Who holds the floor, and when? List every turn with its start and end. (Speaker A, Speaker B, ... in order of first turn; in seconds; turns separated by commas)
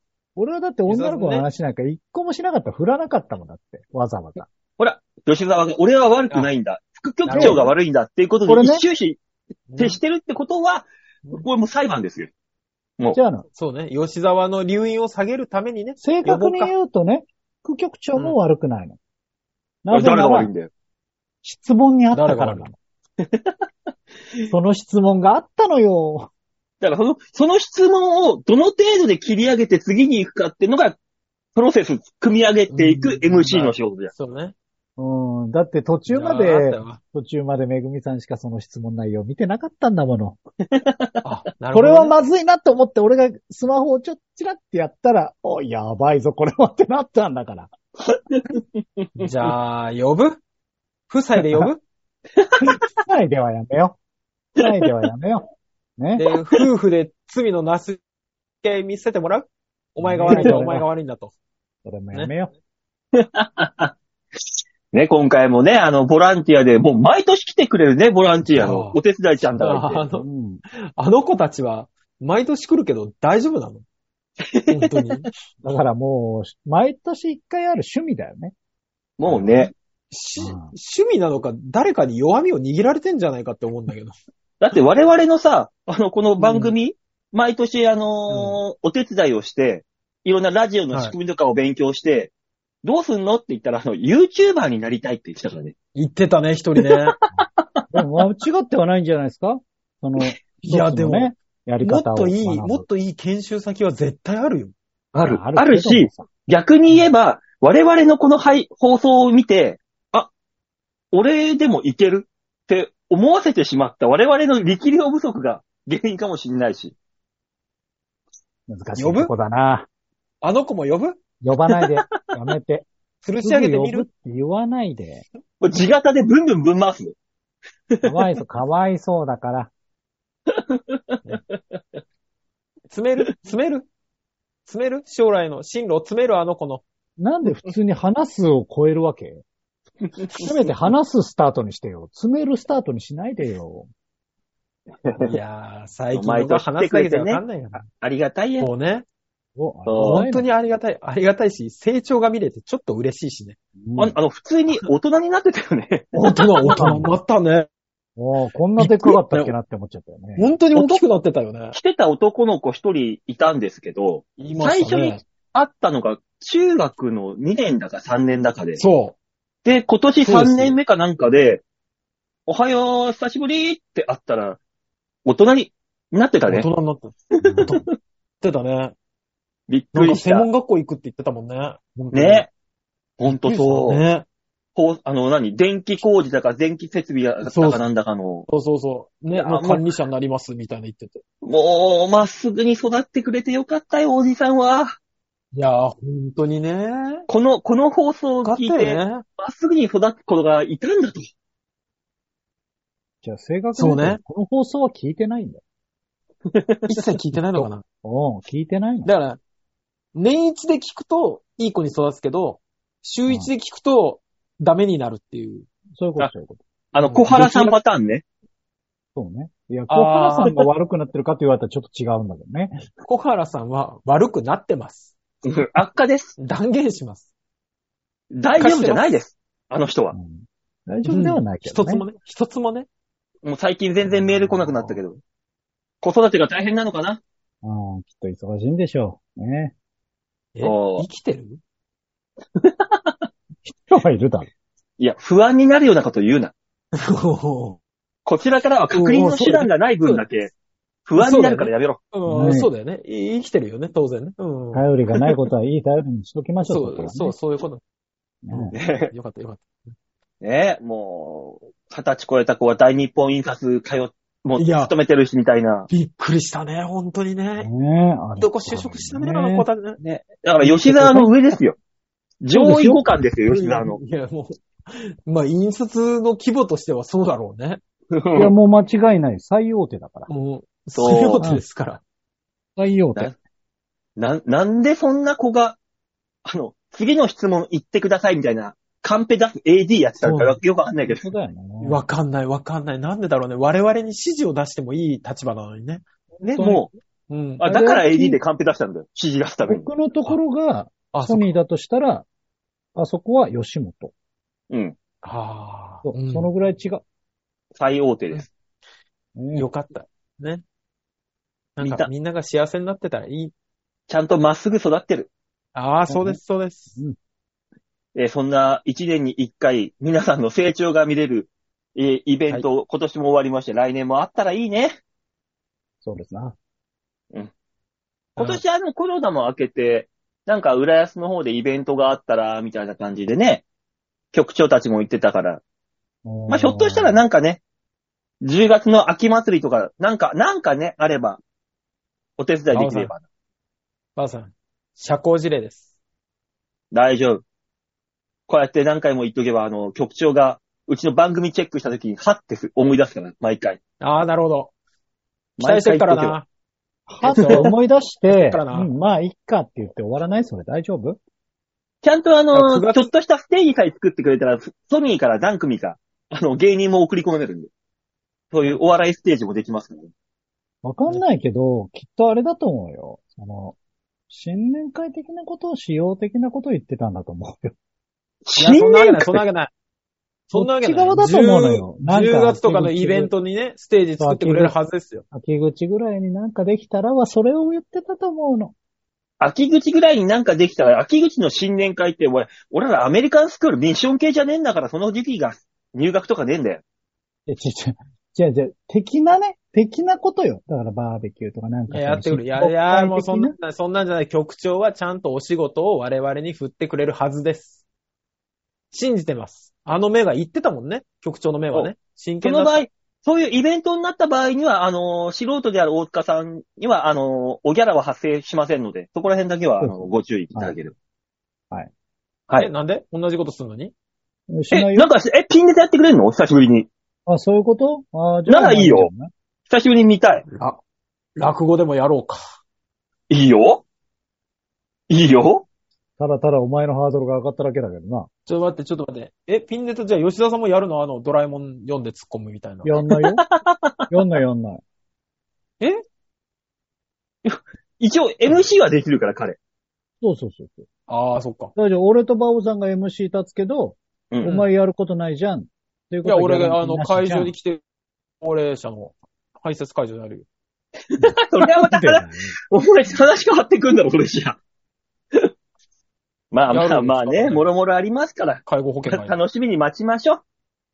Speaker A: 0.4-4.5, Speaker B: 0.9-1.4, Speaker C: 4.8-9.2, Speaker B: 7.2-7.7, Speaker A: 7.4-7.7, Speaker A: 8.5-8.8, Speaker B: 9.7-10.0, Speaker C: 9.8-12.3, Speaker A: 13.1-13.5, Speaker B: 13.6-16.7, Speaker A: 16.0-19.0, Speaker A: 19.9-20.5, Speaker C: 19.9-20.7, Speaker A: 21.4-22.8, Speaker B: 22.1-22.7, Speaker C: 23.2-23.5, Speaker A: 24.5-26.3, Speaker C: 26.8-31.0, Speaker C: 31.6-34.1, Speaker B: 32.7-34.5, Speaker A: 35.0-40.4, Speaker B: 36.1-37.0, Speaker C: 40.7-41.1, Speaker B: 41.2-42.1, Speaker A: 41.7-47.7, Speaker C: 48.1-49.3, Speaker B: 49.2-50.4, Speaker B: 51.1-51.8, Speaker C: 52.4-52.8, Speaker A: 52.6-54.0, Speaker A: 54.6-55.5, Speaker C: 54.6-55.1, Speaker A: 56.0-56.3, Speaker B: 56.2-58.0, Speaker B: 58.6-61.3, Speaker A: 60.0-60.9, Speaker C: 60.3-60.6, Speaker A: 61.9-62.5, Speaker C: 63.1-63.9, Speaker C: 64.9-70.0, Speaker B: 68.5-69.0, Speaker B: 69.6-73.8, Speaker A: 70.1-70.6, Speaker C: 74.4-75.2, Speaker B: 74.7-75.3, Speaker A: 75.6-78.5, Speaker C: 79.2-79.7, Speaker A: 79.3-79.7, Speaker B: 80.1-84.2, Speaker A: 80.4-80.7, Speaker C: 84.6-92.3, Speaker B: 86.4-86.7, Speaker B: 88.3-88.6, Speaker C: 92.8-95.7, Speaker B: 96.0-97.2, Speaker C: 96.8-97.8, Speaker A: 97.9-102.8, Speaker B: 100.6-104.7, Speaker C: 105.1-110.3, Speaker A: 105.2-106.3, Speaker C: 111.1-117.0, Speaker A: 118.7-119.9, Speaker B: 119.0-119.3, Speaker B: 120.4-121.2, Speaker A: 121.4-122.9, Speaker B: 123.2-124.1, Speaker A: 123.4-125.2, Speaker C: 125.6-127.2, Speaker A: 128.0-129.7, Speaker C: 130.5-131.2, Speaker B: 132.9-133.9, Speaker B: 134.7-136.8, Speaker A: 137.2-139.4, Speaker A: 140.4-143.9, Speaker C: 145.1-145.4, Speaker B: 145.2-147.8, Speaker C: 146.1-148.7, Speaker B: 148.6-149.1, Speaker A: 149.6-150.5, Speaker C: 149.9-150.3, Speaker B: 150.0-153.6, Speaker A: 153.8-154.2, Speaker C: 154.0-156.9, Speaker B: 156.1-157.7, Speaker A: 156.7-157.1, Speaker A: 158.2-160.5, Speaker B: 158.8-159.5, Speaker B: 160.4-161.8, Speaker C: 160.8-161.0, Speaker C: 161.7-168.8, Speaker B: 164.4-165.2, Speaker B: 168.8-169.2, Speaker C: 169.7-171.6, Speaker B: 170.2-170.8, Speaker C: 172.5-174.6, Speaker C: 175.3-176.7, Speaker B: 176.5-177.8, Speaker C: 177.4-177.8, Speaker A: 177.4-177.8, Speaker B: 178.4-178.9, Speaker C: 179.7-180.5, Speaker B: 179.9-182.5, Speaker C: 182.1-182.5, Speaker C: 183.2-184.0, Speaker B: 183.3-184.2, Speaker C: 184.8-188.5, Speaker B: 187.4-187.8, Speaker B: 188.5-191.2, Speaker C: 189.3-189.9, Speaker C: 191.4-194.9, Speaker B: 195.5-197.3, Speaker C: 197.3-201.3, Speaker B: 198.4-199.2, Speaker A: 203.2-205.6, Speaker B: 203.8-204.2, Speaker C: 206.5-206.9, Speaker B: 206.9-207.8, Speaker A: 207.4-209.1, Speaker B: 209.1-209.4, Speaker B: 210.2-215.7, Speaker A: 216.0-216.6, Speaker C: 216.9-218.2, Speaker B: 217.1-217.8, Speaker A: 219.2-222.8, Speaker B: 219.9-220.6, Speaker B: 223.1-225.1, Speaker C: 225.4-226.3, Speaker B: 226.4-227.3, Speaker C: 228.3-230.2, Speaker B: 228.6-229.2, Speaker A: 230.1-232.1, Speaker B: 231.1-232.9, Speaker C: 233.4-235.2, Speaker A: 234.0-235.0, Speaker C: 236.0-237.2, Speaker A: 237.6-239.7, Speaker B: 240.6-241.6, Speaker C: 240.6-241.1, Speaker C: 242.6-243.1, Speaker A: 243.6-244.5, Speaker C: 245.0-246.5, Speaker B: 246.9-247.8, Speaker C: 248.3-250.5, Speaker B: 248.9-250.3, Speaker C: 251.1-252.0, Speaker B: 251.2-255.4, Speaker A: 252.3-252.7, Speaker A: 254.7-257.4, Speaker B: 256.6-257.8, Speaker A: 258.4-258.7, Speaker B: 258.5-259.7, Speaker C: 258.7-259.1, Speaker C: 260.4-265.9, Speaker B: 264.6-264.9, Speaker B: 265.9-267.7, Speaker A: 267.6-269.7, Speaker B: 268.4-270.0, Speaker C: 270.0-271.8, Speaker B: 270.6-271.3, Speaker C: 272.4-274.0, Speaker A: 272.5-273.0, Speaker B: 273.5-277.8, Speaker C: 278.1-278.5, Speaker A: 278.4-280.3, Speaker B: 280.3-282.0, Speaker C: 280.9-281.4, Speaker A: 282.8-283.3, Speaker C: 284.2-285.8, Speaker C: 286.4-291.3, Speaker B: 290.2-290.6, Speaker A: 291.1-292.0, Speaker B: 291.8-296.1, Speaker C: 296.4-296.9, Speaker A: 296.6-296.9, Speaker B: 297.3-297.6, Speaker C: 297.6-299.9, Speaker A: 297.6-298.4, Speaker A: 299.6-302.3, Speaker B: 301.1-301.6, Speaker A: 302.9-304.1, Speaker C: 304.7-304.9, Speaker B: 305.2-306.5, Speaker A: 306.1-307.0, Speaker C: 307.8-308.5, Speaker A: 309.4-309.7, Speaker B: 309.6-310.6, Speaker B: 311.8-313.5, Speaker C: 311.8-312.1, Speaker C: 314.1-315.3, Speaker B: 315.8-317.0, Speaker A: 316.1-316.4, Speaker C: 318.1-325.0, Speaker A: 326.0-326.6, Speaker C: 328.4-333.6, Speaker B: 328.4-328.6, Speaker C: 334.3-335.6, Speaker A: 336.3-337.2, Speaker C: 336.5-337.6, Speaker C: 338.4-341.4, Speaker C: 342.4-343.2, Speaker B: 342.7-343.1, Speaker B: 344.2-345.9, Speaker C: 346.9-347.4, Speaker C: 348.5-353.8, Speaker B: 354.0-354.7, Speaker C: 355.6-356.4, Speaker B: 355.6-356.5, Speaker A: 357.1-361.2, Speaker B: 357.2-357.8, Speaker B: 358.3-358.9, Speaker C: 362.0-367.7, Speaker B: 362.5-363.1, Speaker C: 368.5-370.1, Speaker A: 370.8-373.8, Speaker A: 374.3-377.8, Speaker C: 378.5-379.4, Speaker B: 378.6-379.7, Speaker B: 380.5-385.2, Speaker A: 380.5-383.3, Speaker A: 384.2-384.8, Speaker A: 385.3-388.7, Speaker C: 389.4-396.8, Speaker A: 397.5-403.5, Speaker B: 401.9-407.8, Speaker B: 408.9-412.8, Speaker C: 412.4-420.9, Speaker A: 419.8-420.8, Speaker B: 422.6-423.9, Speaker A: 424.5-425.1, Speaker C: 424.7-426.9, Speaker A: 427.3-429.3, Speaker C: 428.5-429.1, Speaker C: 429.7-430.5, Speaker B: 430.5-430.8, Speaker B: 431.4-432.4, Speaker C: 433.3-433.8, Speaker C: 435.1-435.7, Speaker A: 436.2-438.3, Speaker B: 438.5-442.9, Speaker A: 442.8-443.4, Speaker C: 443.3-444.1, Speaker A: 444.1-444.8, Speaker C: 447.4-449.6, Speaker A: 450.2-450.9, Speaker B: 451.1-451.7, Speaker A: 451.8-457.5, Speaker B: 456.2-457.8, Speaker B: 458.4-460.5, Speaker C: 461.1-464.6, Speaker A: 461.2-462.6, Speaker C: 466.5-470.4, Speaker B: 466.7-467.7, Speaker B: 468.7-469.4